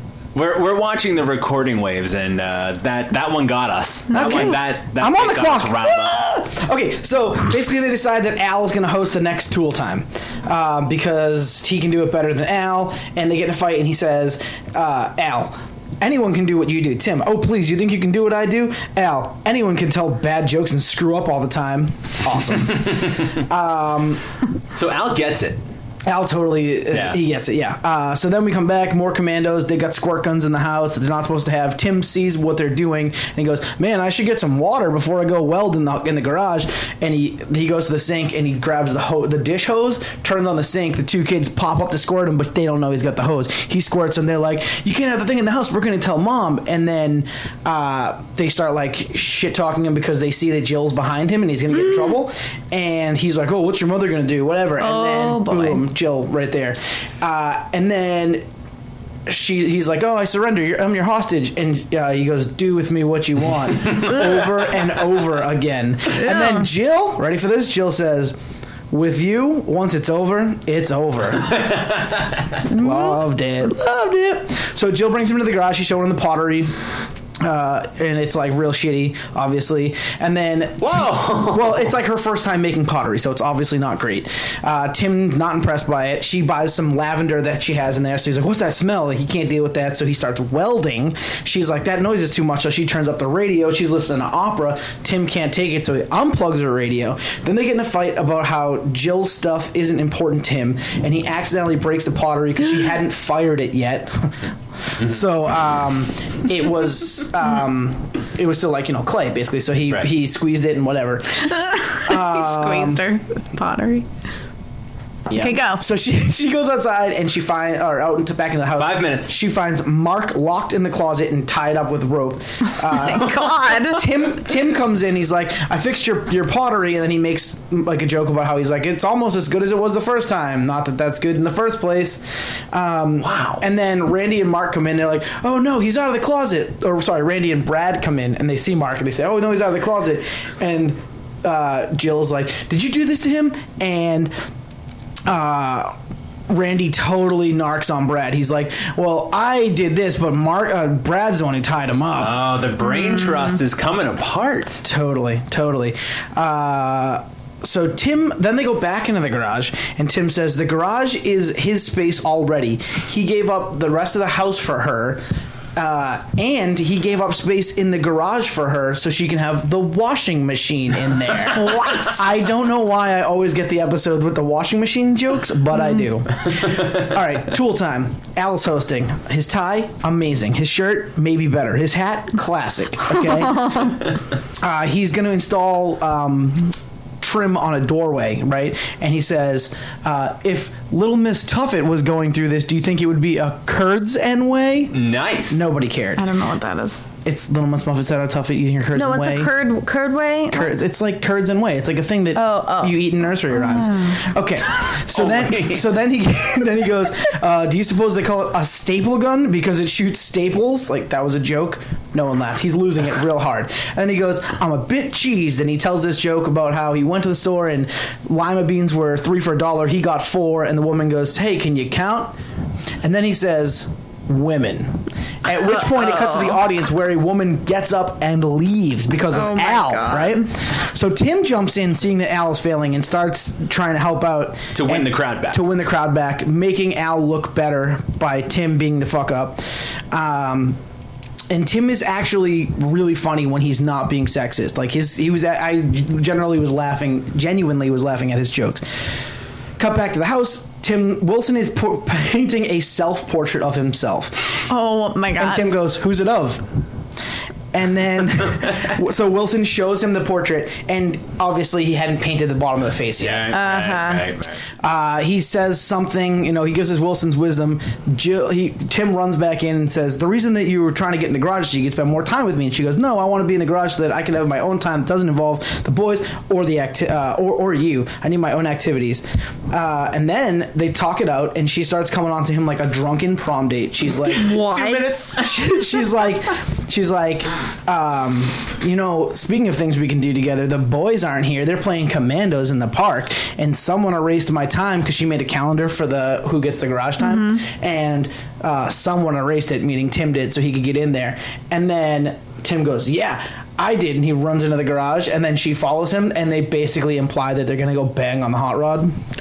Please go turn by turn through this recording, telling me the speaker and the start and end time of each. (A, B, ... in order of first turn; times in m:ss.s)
0:00.3-0:06.1 A
0:04.1-0:04.5 B
0:04.1-0:24.2 C
0:22.9-0:23.2 A
0:24.7-0:25.6 A
0:26.0-0:58.4 C
0:26.9-0:27.2 A
0:54.8-0:55.8 B
0:59.2-1:08.3 C
1:06.2-1:06.6 B
1:08.9-1:11.8 C
1:11.5-1:12.5 A
1:12.7-1:13.2 B
1:12.7-1:16.8 C
1:17.4-1:44.4 C
1:20.8-1:21.9 A
1:44.9-1:53.0 C
1:51.5-1:54.1 B
1:55.3-2:24.3 C
1:55.3-1:55.8 B
1:58.8-1:59.3 A
2:02.9-2:04.0 B
2:13.2-2:13.6 A
2:25.2-2:26.0 C
2:26.5-2:32.4 C
2:32.2-2:34.8 A
2:34.8-2:45.2 C
2:45.8-3:04.0 C
2:51.7-2:52.0 A
3:03.3-3:04.0 B
3:04.6-3:15.0 C
3:14.9-3:15.6 A
3:15.5-3:16.3 C
3:16.2-3:17.0 B
3:17.2-3:19.5 C
3:18.9-3:20.7 B
3:20.5-3:42.3 C
3:22.3-3:23.0 B
3:23.5-3:24.2 B
3:25.1-3:25.9 A
3:43.0-4:00.8 C
3:45.5-3:46.6 B
3:49.3-3:50.4 B
3:54.7-3:55.6 A
4:01.5-4:09.1 C
4:09.8-4:14.7 C
4:14.7-4:15.7 B
4:15.3-4:16.8 C
4:17.7-4:23.5 C
4:23.2-4:24.6 A
4:23.5-4:24.3 B
4:24.8-5:09.1 C
4:44.3-4:45.2 B
4:44.6-4:45.6 A
4:57.2-4:57.6 B